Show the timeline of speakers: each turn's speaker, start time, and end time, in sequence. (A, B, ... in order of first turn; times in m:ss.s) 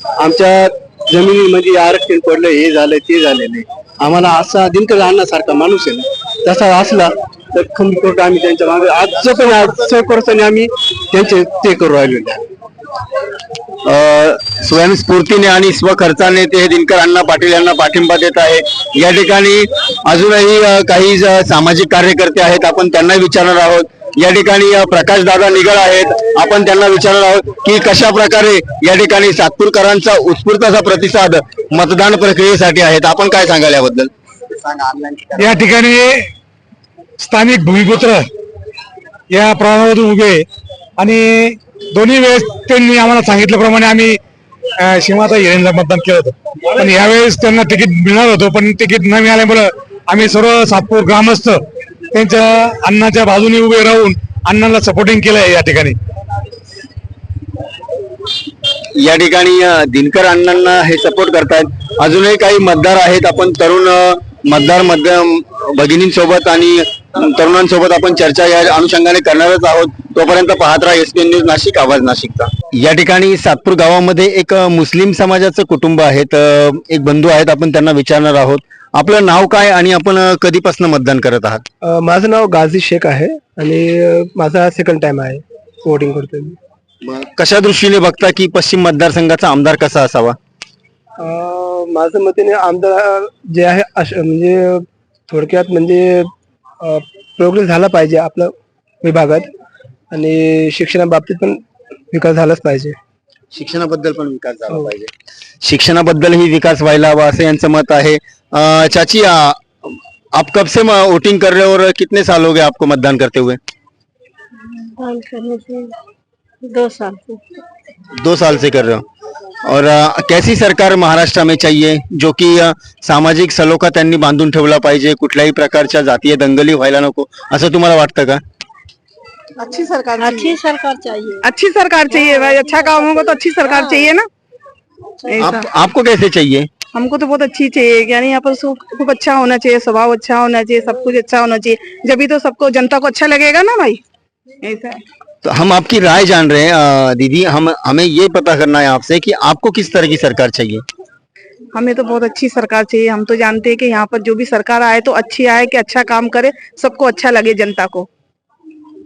0:00.2-0:12.4 A
0:13.9-0:34.1 B
0:34.9-0:35.2 B
0:35.4-0:36.3 C
0:37.2-0:38.3 C
0:39.3-0:40.5 C
0:41.0-0:44.2 C
0:44.8-0:56.0 C
0:59.0-1:21.6 B
1:22.1-1:26.1 D
1:22.7-1:23.2 E
1:25.0-1:25.3 E
1:26.1-1:26.4 E
1:27.0-1:30.4 B
1:31.4-1:33.1 E
1:33.3-1:34.5 D
1:35.3-1:36.2 E
1:37.4-1:37.7 D
1:37.5-1:38.4 E
1:39.0-1:39.4 D
1:40.2-1:41.5 E
1:42.1-1:42.4 D
1:42.3-1:42.9 E
1:43.5-1:45.1 B
1:45.6-1:49.6 B
1:50.4-1:53.6 B
1:54.6-1:56.0 F
1:56.6-1:57.4 F
1:58.2-1:59.0 B
1:59.7-2:08.4 B
2:09.6-2:10.6 D
2:10.2-2:11.5 F
2:11.4-2:14.3 D
2:12.1-2:14.1 F
2:15.3-2:15.7 D
2:15.4-2:16.7 B
2:16.9-2:24.0 D
2:24.6-2:25.0 D
2:25.4-2:30.8 B
2:31.7-2:38.1 D